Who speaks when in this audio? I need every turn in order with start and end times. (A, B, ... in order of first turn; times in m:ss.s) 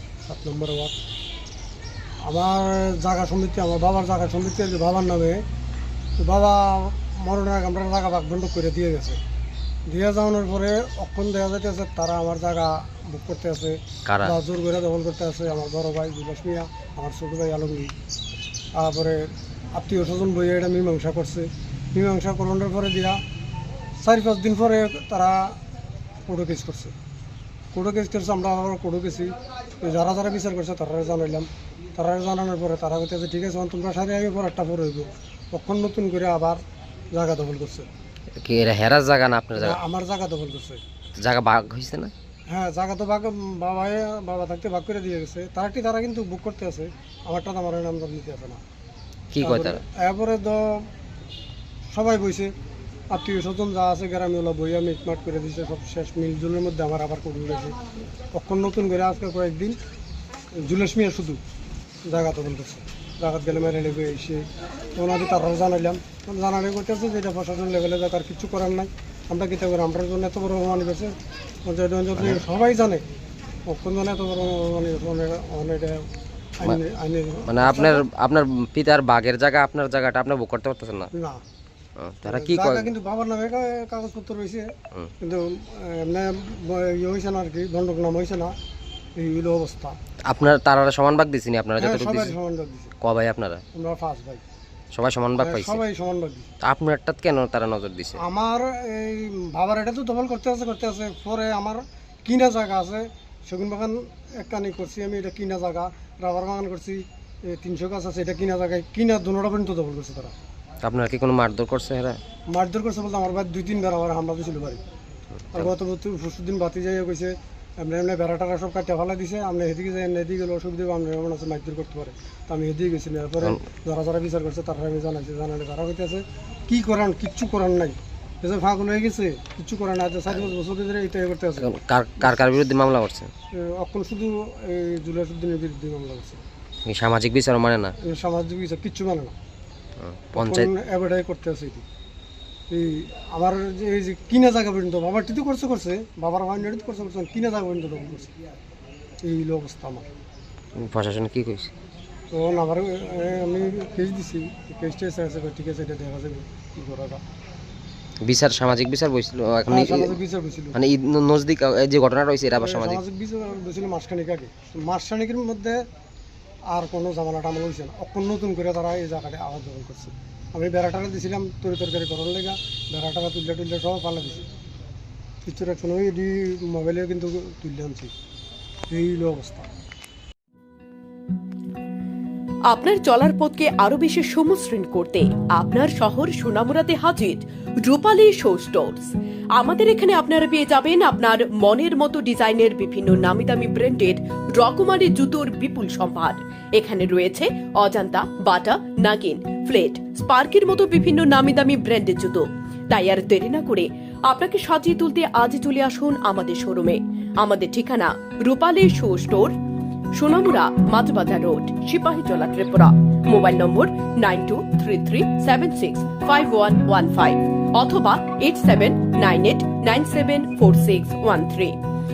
0:00.2-0:01.0 A
0:02.2-0:05.4 A
0:06.2-0:09.2 A
0:09.9-0:17.9 A
0:14.1-0:14.4 B
0:18.7-0:23.2 A
0:24.0-0:25.6 A
0:26.3-0:26.9 A
0:27.7-0:37.9 A
0:38.4-0:39.8 B
0:39.6-0:40.8 A
0:41.2-0:42.1 B
0:42.5-0:48.6 A
0:49.3-0:49.8 B
0:49.4-0:50.9 A
0:51.9-0:52.5 A
0:53.1-0:57.8 A
0:58.3-0:59.8 A
1:00.6-1:01.4 A
1:02.0-1:11.1 A
1:11.6-1:13.0 A
1:13.7-1:18.0 A
1:17.5-1:21.1 B
1:21.1-1:21.4 A
1:22.0-1:22.9 B
1:22.2-1:28.6 A
1:29.2-1:30.0 A
1:30.2-1:32.4 B
1:31.8-1:32.9 A
1:33.0-1:33.6 B
1:33.7-1:34.4 A
1:34.9-1:35.8 B
1:35.4-1:36.5 A
1:36.6-1:38.2 B
1:38.2-1:50.4 A
1:50.8-1:52.2 B
1:52.5-1:54.8 A
1:55.5-2:12.5 A
2:11.6-2:13.3 B
2:13.5-2:16.4 A
2:16.8-2:17.9 B
2:18.0-2:19.4 A
2:20.0-2:20.7 B
2:20.4-2:21.8 A
2:22.7-2:28.4 A
2:29.2-2:30.1 A
2:30.8-2:31.7 B
2:32.3-2:37.2 A
2:38.2-2:40.2 B
2:39.7-2:40.8 A
2:40.7-2:43.0 B
2:42.6-2:45.8 A
2:46.7-2:54.5 A
2:55.4-2:58.1 A
2:58.9-2:59.7 A
3:02.7-3:29.6 C
3:30.1-3:41.8 C